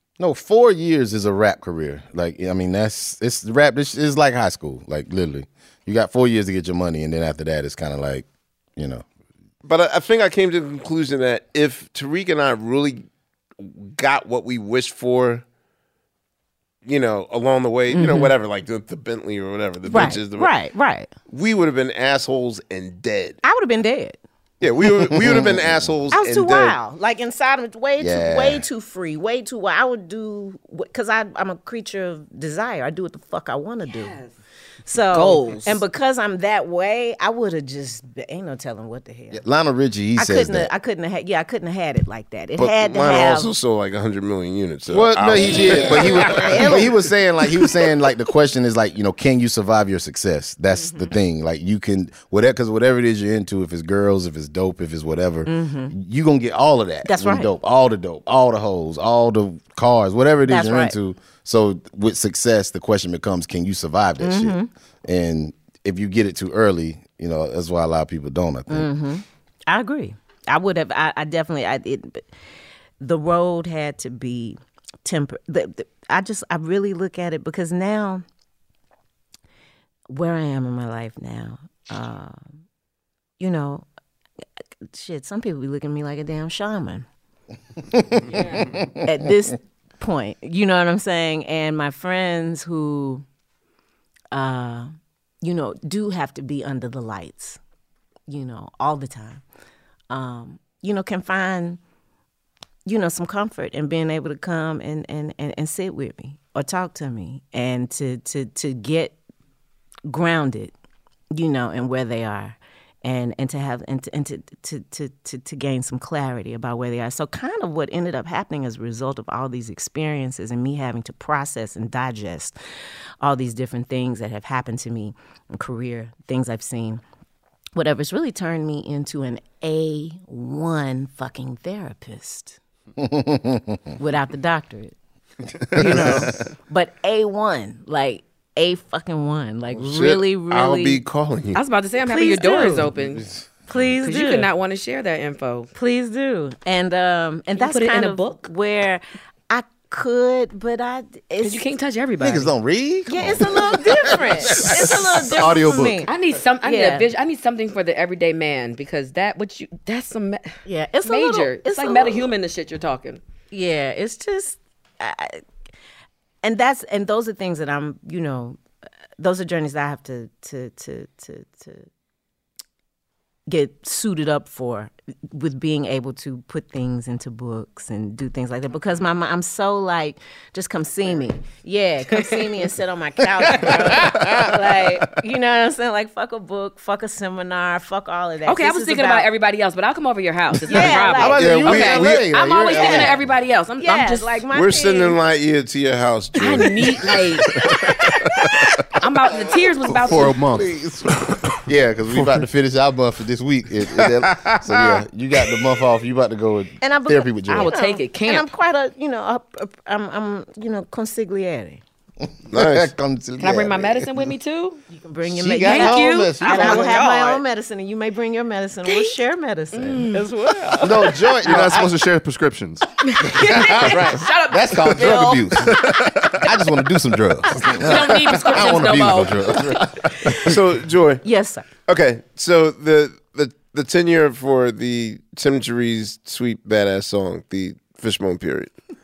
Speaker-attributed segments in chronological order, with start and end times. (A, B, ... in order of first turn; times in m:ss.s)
0:00.2-0:08.2 A
0:08.8-0:09.0 A
0:09.6-0:13.0 B
0:13.6-0:15.4 B
0:16.8-0:20.5 B
0:17.9-0:18.3 C
0:19.9-0:21.1 C
0:21.3-0:23.4 B
0:23.4-0:24.2 C
0:24.6-0:26.8 B
0:24.9-0:25.9 A
0:26.1-0:34.2 C
0:28.0-0:28.6 A
0:33.9-0:34.3 D
0:34.9-0:39.4 C
0:35.1-0:35.8 D
0:39.3-0:40.7 A
0:40.1-0:43.5 C
0:42.6-0:46.8 B
0:44.9-1:08.9 A
0:45.4-0:47.0 C
0:50.7-0:51.1 C
0:55.4-0:55.9 C
0:57.0-0:57.5 C
1:00.4-1:00.9 C
1:04.2-1:04.7 C
1:08.7-1:12.3 C
1:13.0-1:18.2 C
1:20.1-1:22.4 C
1:23.4-1:23.9 C
1:24.8-1:27.0 C
1:28.3-1:28.7 D
1:28.7-1:29.0 A
1:29.0-1:33.2 C
1:34.3-1:34.9 C
1:35.4-1:37.6 C
1:38.3-1:39.4 C
1:40.1-1:41.8 C
1:42.9-1:49.2 C
1:50.1-1:50.7 C
1:51.3-2:02.6 C
2:03.2-2:07.0 C
2:07.8-2:12.6 C
2:13.0-2:13.8 A
2:14.0-2:14.9 C
2:15.7-2:21.0 C
2:15.8-2:16.3 A
2:19.7-2:21.6 B
2:21.5-2:23.2 D
2:22.0-2:22.9 C
2:23.2-2:23.8 A
2:23.7-2:24.5 C
2:24.0-2:25.7 D
2:25.7-2:31.6 C
2:27.6-2:28.5 D
2:31.4-2:32.5 D
2:32.2-2:35.8 A
2:33.1-2:37.1 C
2:35.4-2:36.0 E
2:36.0-2:43.2 D
2:40.6-2:42.3 C
2:43.5-2:45.4 C
2:46.4-2:48.6 C
2:49.2-2:51.9 C
2:53.5-3:09.3 C
3:03.7-3:04.4 A
3:08.4-3:14.4 D
3:10.6-3:11.5 C
3:10.7-3:13.2 A
3:11.4-3:12.2 B
3:12.6-3:13.2 C
3:13.8-3:15.2 C
3:14.5-3:17.9 B
3:16.4-3:17.5 D
3:19.0-3:20.4 D
3:19.9-3:27.7 A
3:20.0-3:20.7 E
3:23.9-3:25.6 B
3:26.8-3:31.8 C
3:27.5-3:28.5 D
3:32.5-3:32.9 B
3:32.5-3:34.1 A
3:33.4-3:34.8 D
3:34.9-3:41.2 C
3:35.3-3:37.0 A
3:35.6-3:37.4 D
3:38.9-3:39.1 D
3:39.7-3:40.2 D
3:40.8-3:42.0 A
3:41.4-3:42.9 E
3:43.0-3:46.0 D
3:43.4-3:45.8 A
3:46.4-3:50.4 A
3:47.4-3:49.8 D
3:50.4-3:51.2 B
3:51.2-3:51.7 C
3:51.9-3:58.7 B